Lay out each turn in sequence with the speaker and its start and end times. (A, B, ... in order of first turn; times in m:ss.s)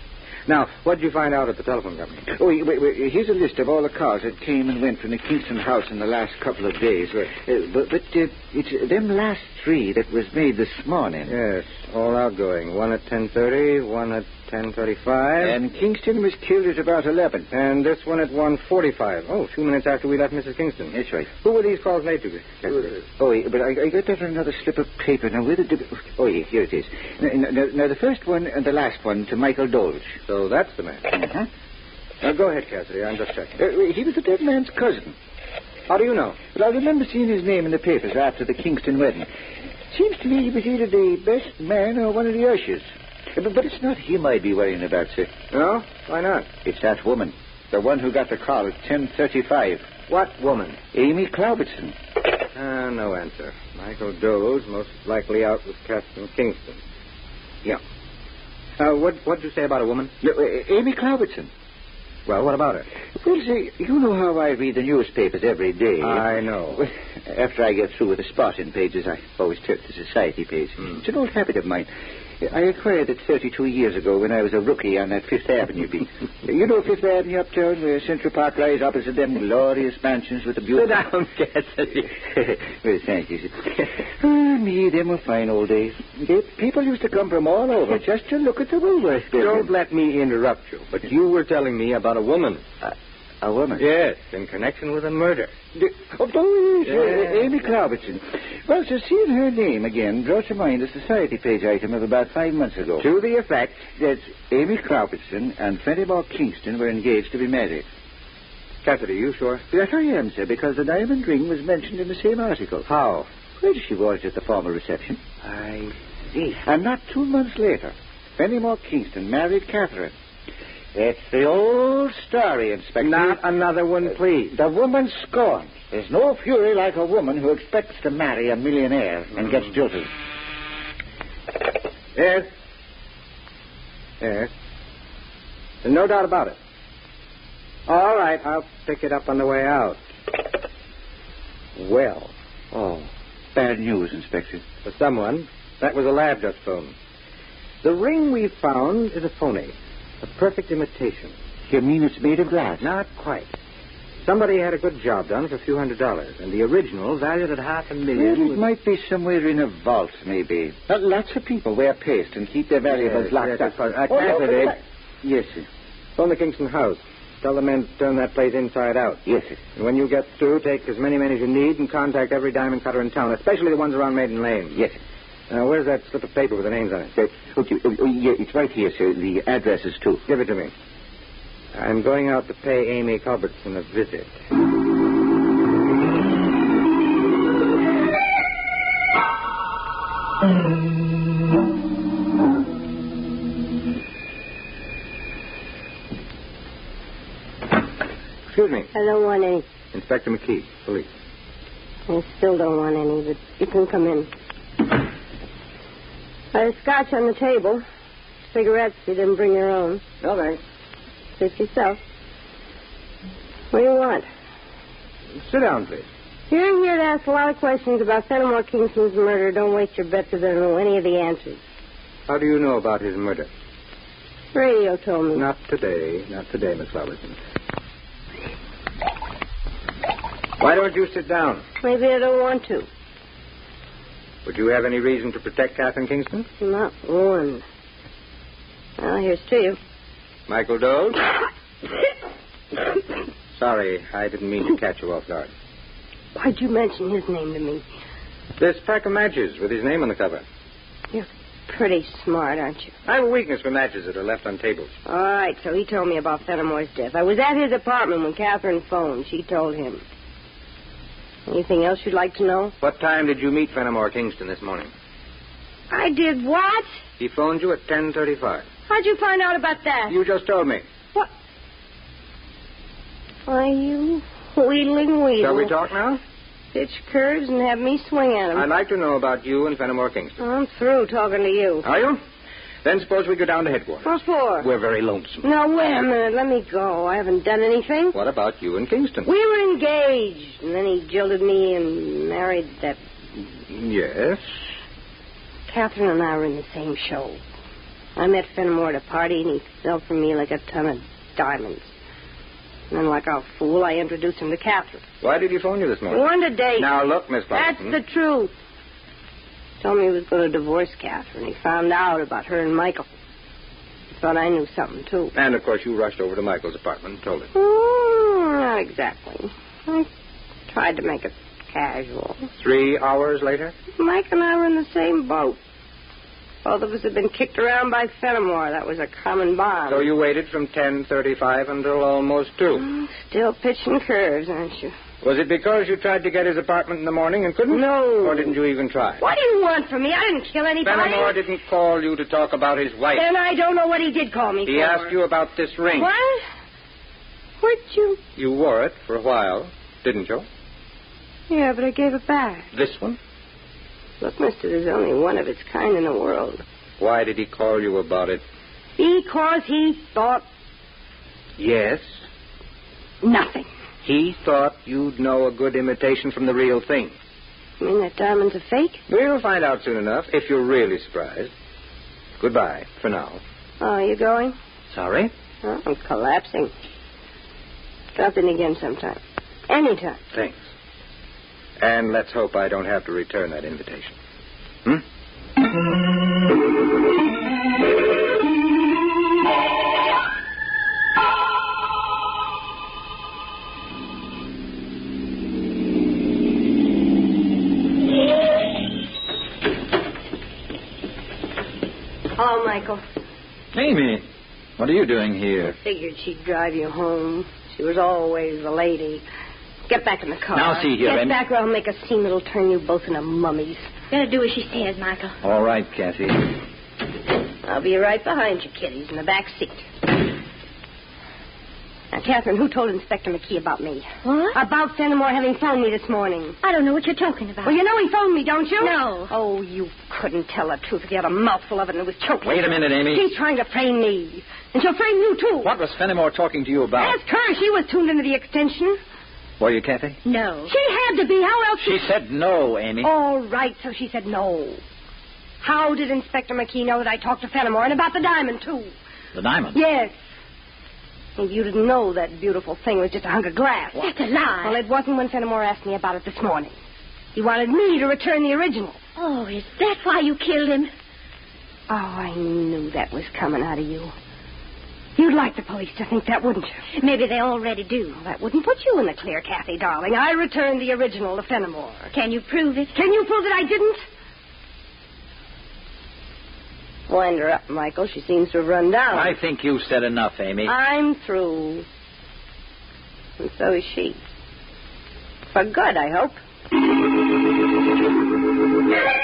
0:00.5-0:02.2 A
0:02.3-0:11.4 B
0:11.3-0:15.6 A
0:15.4-0:17.5 B
0:17.5-0:22.9 A
0:20.9-0:21.3 B
0:22.7-0:30.2 B
0:30.3-0:31.1 A
0:31.1-0:31.5 B
0:32.2-0:33.6 A
0:33.6-0:35.1 B
0:35.9-0:36.4 A
0:36.5-0:39.3 B
0:39.9-0:45.3 B
0:45.5-0:46.5 A
0:46.6-0:49.8 B
0:50.1-0:50.8 A
0:50.9-0:52.0 B
0:52.5-0:56.8 A
0:58.8-1:00.1 A
1:00.2-1:01.5 B
1:02.2-1:02.9 A
1:03.2-1:11.9 B
1:06.0-1:06.8 A
1:12.4-1:21.0 B
1:20.8-1:22.1 A
1:22.1-1:29.7 B
1:29.3-1:32.6 A
1:32.8-1:33.8 B
1:33.8-1:35.5 A
1:35.7-1:43.0 B
1:36.8-1:37.4 A
1:43.0-1:43.9 A
1:43.9-1:47.9 B
1:48.8-1:49.6 A
1:49.7-1:52.9 B
1:52.8-1:53.3 A
1:53.6-1:55.2 B
1:55.4-1:56.6 A
1:56.6-2:00.1 B
2:00.9-2:03.4 B
2:03.0-2:04.5 A
2:04.5-2:10.1 B
2:12.1-2:12.5 A
2:14.2-2:14.5 A
2:15.8-2:16.6 A
2:17.9-2:20.0 A
2:21.8-2:23.0 A
2:23.5-2:24.6 B
2:24.8-2:26.9 A
2:27.8-2:31.3 A
2:31.7-2:32.9 B
2:32.8-2:33.5 A
2:34.2-2:38.6 A
2:38.1-2:45.7 B
2:42.9-2:44.8 A
2:46.2-2:49.2 A
2:49.2-2:49.6 B
2:49.7-2:54.8 A
2:55.5-2:57.1 A
2:57.1-3:00.2 B
3:00.3-3:00.7 A
3:01.7-3:04.3 A
3:18.5-3:18.9 A
3:18.9-3:19.6 C
3:19.9-3:21.1 A
3:22.1-3:24.3 C
3:26.5-3:27.8 C
3:28.5-3:30.0 C
3:30.2-3:30.6 A
3:31.4-3:32.0 C
3:33.7-3:34.2 C
3:35.4-3:36.1 A
3:36.5-3:41.6 C
3:42.3-3:43.5 A
3:44.5-3:45.5 C
3:45.3-3:47.4 A
3:50.6-3:51.6 A
3:51.8-3:52.9 C
3:54.4-3:56.5 A
3:56.6-3:57.6 C
3:59.0-3:59.8 C
4:00.5-4:01.3 A
4:03.6-4:05.5 A
4:06.3-4:07.8 C
4:08.6-4:10.4 A
4:11.1-4:12.9 C
4:13.0-4:14.9 A
4:15.0-4:20.0 C
4:21.5-4:22.7 C
4:22.8-4:24.9 A
4:25.9-4:26.9 C
4:27.2-4:28.7 A
4:28.9-4:30.2 C
4:30.1-4:30.8 A
4:33.5-4:35.8 C
4:35.4-4:36.2 A
4:36.7-4:38.7 C
4:38.5-4:40.4 A
4:40.4-4:41.8 C
4:41.8-4:42.2 A
4:42.8-4:45.4 A
4:44.0-4:44.7 C
4:45.4-4:48.1 C
4:48.1-4:49.3 A
4:49.2-4:53.0 C
4:53.7-4:54.4 A
4:55.7-4:57.4 C
4:58.2-5:01.9 C
5:02.9-5:05.0 C
5:05.2-5:06.2 A
5:06.1-5:06.9 C
5:06.8-5:08.0 A
5:07.5-5:08.5 C
5:09.8-5:13.1 C
5:14.1-5:15.3 C
5:15.3-5:17.5 A
5:17.5-5:20.1 C
5:20.7-5:22.5 C
5:22.6-5:23.8 A
5:23.9-5:25.6 C
5:26.6-5:30.1 C
5:29.9-5:32.8 A
5:32.8-5:34.9 C
5:35.2-5:39.2 A
5:37.7-5:38.5 C
5:39.2-5:41.4 C
5:40.8-5:43.3 A
5:43.1-5:45.1 C
5:44.6-5:46.1 A
5:45.9-5:46.4 C
5:47.6-5:48.2 C
5:48.3-5:50.4 A
5:51.5-5:52.7 C
5:52.7-5:53.2 A
5:54.2-5:56.6 C
5:57.0-5:58.4 A
5:59.0-6:00.4 C
6:01.6-6:02.1 A
6:03.2-6:03.7 C
6:04.0-6:07.1 A
6:07.8-6:09.0 C
6:09.1-6:11.5 A
6:12.4-6:13.4 A
6:13.8-6:14.5 C
6:14.9-6:15.3 D
6:15.6-6:16.7 C
6:18.1-6:20.2 C
6:20.3-6:20.6 A
6:21.8-6:24.1 A
6:42.4-6:43.0 C
6:43.7-6:44.2 D
6:44.8-6:45.8 D
6:45.7-6:49.2 C
6:49.9-6:53.9 C
6:50.5-6:51.4 D
6:54.1-6:55.4 E
6:55.4-6:56.5 D
6:57.6-6:59.8 C
7:02.1-7:06.6 C
7:04.2-7:04.6 E
7:06.6-7:07.8 E
7:07.6-7:15.7 C
7:08.8-7:09.3 E
7:12.4-7:13.2 D
7:15.6-7:17.2 D
7:16.9-7:19.0 C
7:19.6-7:20.2 D
7:20.2-7:20.7 E
7:20.7-7:22.1 C
7:21.8-7:23.1 D
7:23.0-7:24.8 C
7:25.6-7:28.9 C
7:29.3-7:29.8 D
7:29.7-7:30.1 C
7:31.4-7:34.1 C
7:33.9-7:34.8 E
7:34.6-7:36.7 C
7:37.3-7:39.0 C
7:39.2-7:40.9 E
7:41.9-7:44.1 C
7:45.2-7:46.8 C
7:46.9-7:48.2 E
7:48.1-7:52.1 C
7:52.1-7:52.9 E
7:52.9-7:54.0 C
7:57.1-7:59.4 C
7:59.1-8:00.7 D
8:00.6-8:01.8 C
8:03.4-8:04.2 C
8:05.5-8:06.4 C